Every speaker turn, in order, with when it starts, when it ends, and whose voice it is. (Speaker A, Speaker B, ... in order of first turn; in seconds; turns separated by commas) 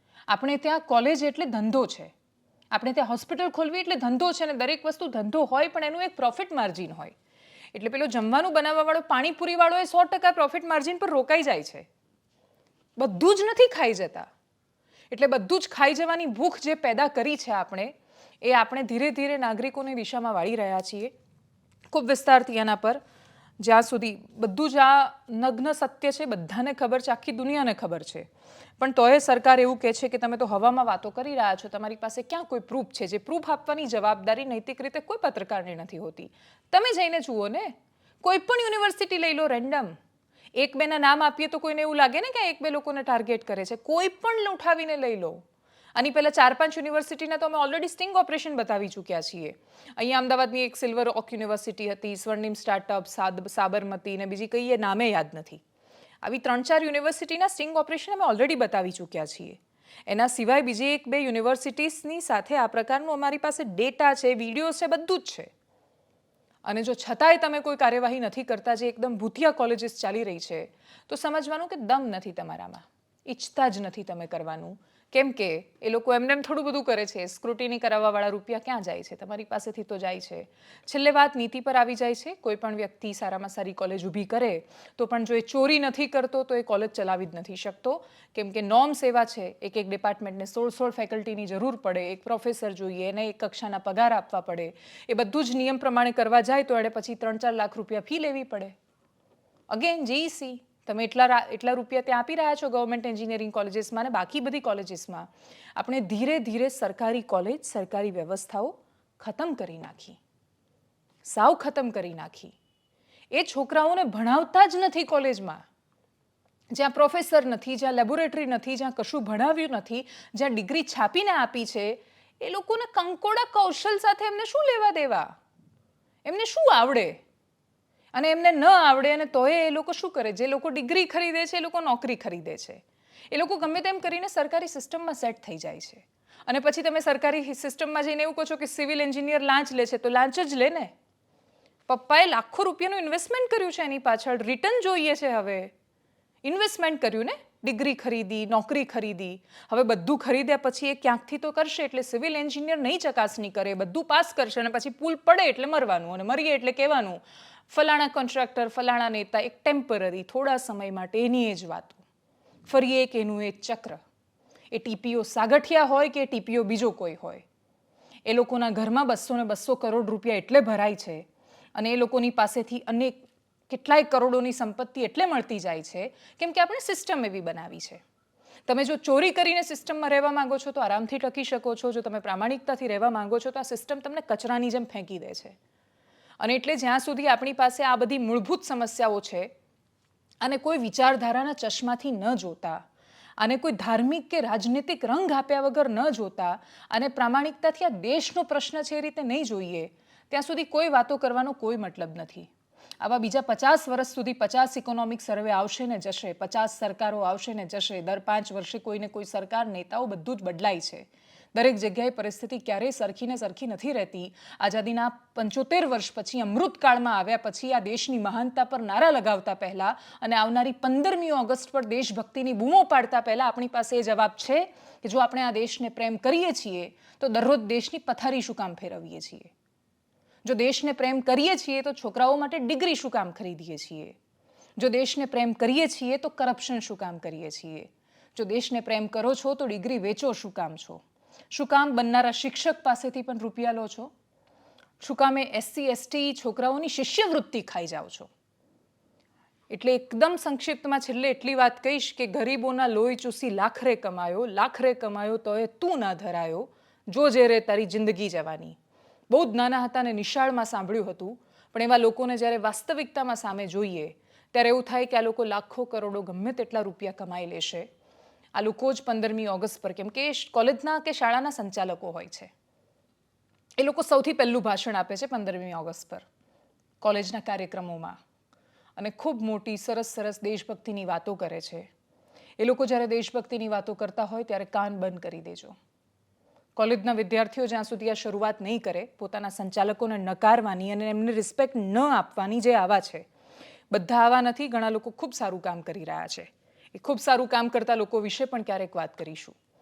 Speaker A: 0.3-2.1, Speaker A: 2.7-7.1, Speaker A: 7.7-11.9, Speaker A: 13.0-14.3, Speaker A: 15.1-21.1, Speaker A: 21.9-23.0, Speaker A: 23.6-28.3, Speaker A: 28.8-39.9, Speaker A: 40.5-45.4, Speaker A: 45.9-55.6, Speaker A: 56.2-65.5, Speaker A: 66.6-98.7, Speaker A: 99.7-110.2, Speaker A: 111.2-112.5, Speaker A: 113.3-115.6, Speaker A: 116.7-125.3, Speaker A: 126.2-127.2, Speaker A: 128.1-140.9, Speaker A: 141.9-145.7, Speaker A: 146.4-162.0, Speaker A: 162.7-164.0, Speaker A: 164.7-167.4, Speaker A: 168.2-178.0, Speaker A: 178.7-185.6, Speaker A: 186.4-189.5, Speaker A: 190.4-192.8, Speaker A: 193.4-202.5, Speaker A: 203.0-229.5, Speaker A: 230.4-234.2, Speaker A: 234.8-244.1, Speaker A: 245.0-248.3, Speaker A: 249.7-258.8, Speaker A: 259.3-267.9, Speaker A: 268.5-272.5, Speaker A: 273.8-276.2, Speaker A: 277.0-278.2, Speaker A: 279.0-281.9, Speaker A: 282.6-285.8, Speaker A: 286.8-293.2, Speaker A: 293.9-299.6